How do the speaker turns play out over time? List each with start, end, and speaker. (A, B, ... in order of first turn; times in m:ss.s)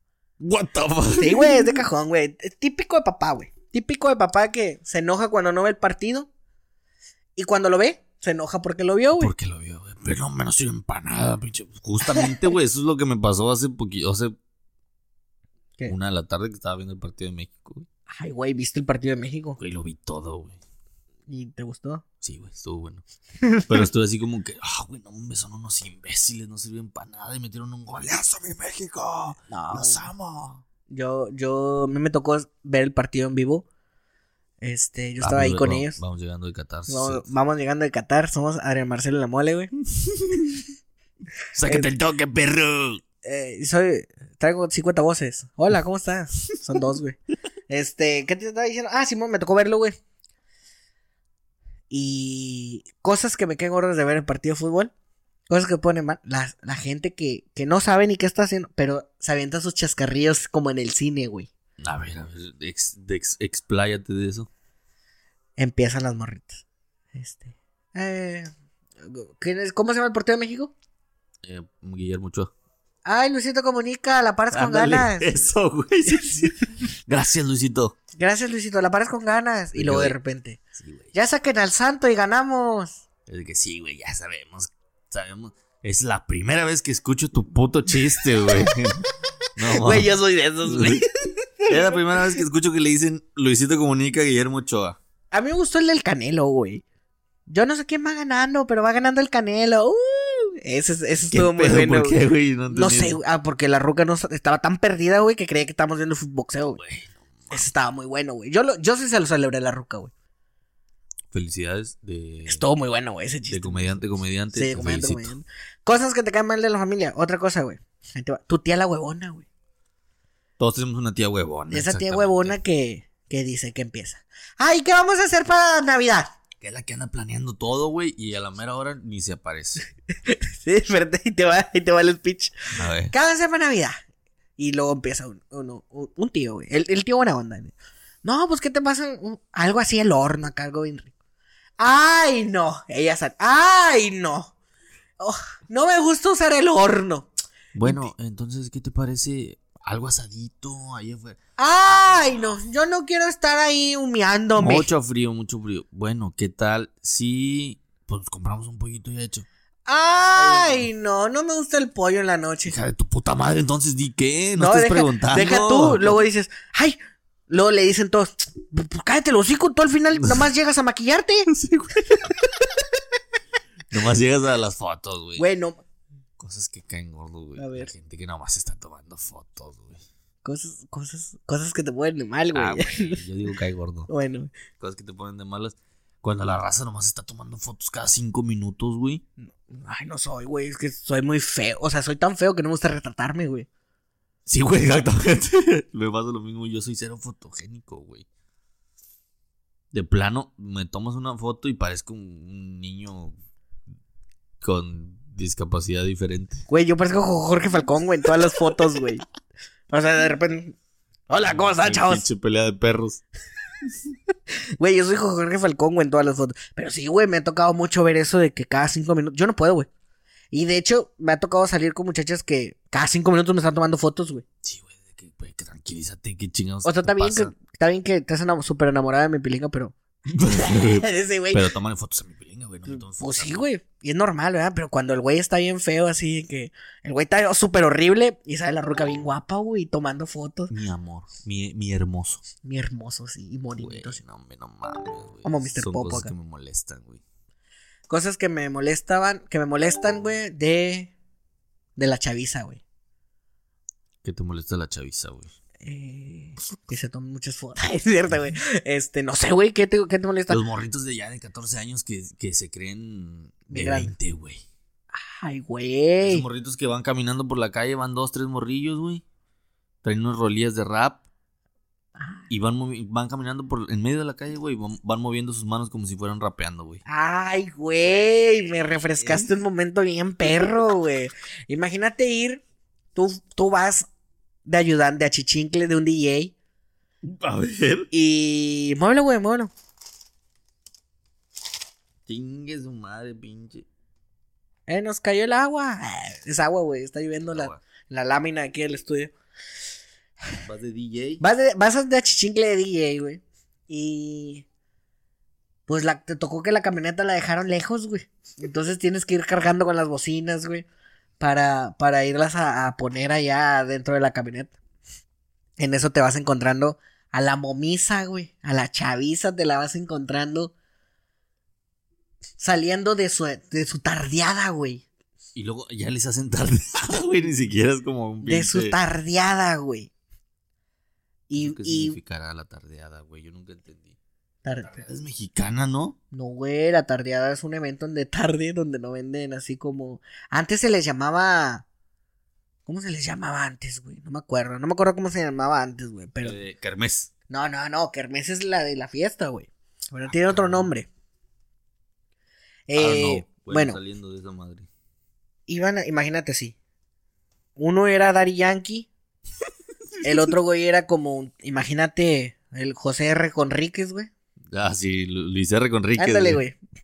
0:00.4-0:01.8 A
0:01.2-0:06.3 B
0:07.4-0:09.3 B
0:09.2-0:14.3 A
0:15.9-0:17.9 A
0:18.1-0:19.6 B
0:19.6-0:20.6 A
0:21.3-0:22.0 B
0:22.2-0:23.0 A
0:23.4-0:23.9 B
0:23.7-0:30.6 A
0:29.5-0:30.0 B
0:30.9-0:33.6 B
0:34.6-0:36.0 B
0:35.2-0:37.3 A
0:36.9-0:39.7 B
0:40.1-0:40.5 A
0:41.5-0:43.0 A
0:43.2-0:47.2 B
0:47.7-0:50.0 B
0:51.9-0:54.9 B
0:55.5-1:01.5 B
1:01.8-1:04.5 A
1:05.6-1:06.6 B
1:07.2-1:08.5 B
1:09.0-1:10.7 B
1:11.4-1:12.5 A
1:13.0-1:15.5 B
1:14.5-1:18.0 A
1:16.1-1:16.5 B
1:18.2-1:20.6 B
1:19.7-1:20.2 A
1:20.8-1:21.1 A
1:21.1-1:23.0 B
1:23.3-1:30.1 A
1:29.7-1:32.2 B
1:30.6-1:31.0 A
1:31.7-1:35.0 A
1:35.3-1:36.8 B
1:37.5-1:42.2 B
1:41.3-1:43.2 A
1:42.7-1:46.8 B
1:46.8-1:47.7 A
1:47.5-1:50.1 B
1:51.3-1:52.6 A
1:52.5-1:59.4 B
1:53.5-1:55.3 A
2:00.6-2:02.6 A
2:01.7-2:06.3 B
2:06.6-2:09.8 A
2:10.2-2:14.0 B
2:12.8-2:13.1 A
2:14.6-2:21.1 B
2:21.8-2:24.5 B
2:25.2-2:27.3 B
2:27.7-2:32.6 A
2:27.8-2:28.1 B
2:31.6-2:34.9 B
2:34.6-2:39.5 A
2:39.9-2:42.8 B
2:40.3-2:40.9 A
2:42.6-2:46.2 A
2:44.6-2:47.0 B
2:47.5-2:51.5 B
2:50.2-2:50.5 A
2:51.5-2:52.4 A
2:52.1-2:52.4 B
2:53.9-2:55.4 A
2:55.4-2:55.8 B
2:56.4-3:00.0 A
2:57.6-2:57.9 B
3:00.4-3:03.2 B
3:02.5-3:04.1 A
3:04.1-3:04.5 B
3:04.8-3:09.2 A
3:09.4-3:13.7 B
3:14.5-3:18.3 A
3:19.9-3:23.4 A
3:24.6-3:26.7 A
3:26.7-3:29.2 B
3:28.4-3:28.7 A
3:29.9-3:30.8 B
3:31.3-3:32.2 B
3:31.4-3:33.2 A
3:34.8-3:39.9 B
3:40.5-3:44.4 B
3:44.6-3:47.5 A
3:46.8-3:51.7 B
3:50.3-3:53.6 A
3:52.9-4:00.7 B
4:00.7-4:02.4 A
4:02.6-4:04.2 B
4:03.8-4:07.2 A
4:05.4-4:06.3 B
4:08.1-4:11.1 B
4:12.0-4:12.8 B
4:14.2-4:15.5 A
4:15.8-4:20.6 B
4:20.5-4:24.6 A
4:23.7-4:24.2 B
4:25.1-4:26.4 B
4:26.2-4:29.2 A
4:30.0-4:31.2 A
4:32.2-4:32.5 B
4:32.5-4:37.0 A
4:37.1-4:42.6 B
4:38.8-4:39.5 A
4:43.2-4:44.1 B
4:44.7-4:46.6 B
4:47.2-4:48.1 A
4:48.1-4:49.7 B
4:52.3-4:53.9 A
4:54.9-4:59.3 B
4:57.4-4:57.8 A
5:00.6-5:01.4 A
5:01.4-5:04.6 B
5:05.9-5:10.9 B
5:11.4-5:14.7 B
5:15.8-5:20.7 B
5:22.6-5:25.0 B
5:25.6-5:29.0 A
5:28.4-5:30.1 B
5:31.5-5:32.2 B
5:31.6-5:34.2 A
5:34.6-5:35.0 B
5:34.8-5:36.2 A
5:36.3-5:41.8 B
5:42.9-5:46.6 B
5:46.4-5:47.3 A
5:47.5-5:51.1 B
5:50.3-5:50.9 A
5:52.9-5:54.0 B
5:53.0-5:54.9 A
5:55.7-5:56.8 B
5:57.8-5:59.1 B
6:00.2-6:04.3 B
6:04.7-6:06.6 A
6:06.2-6:06.8 B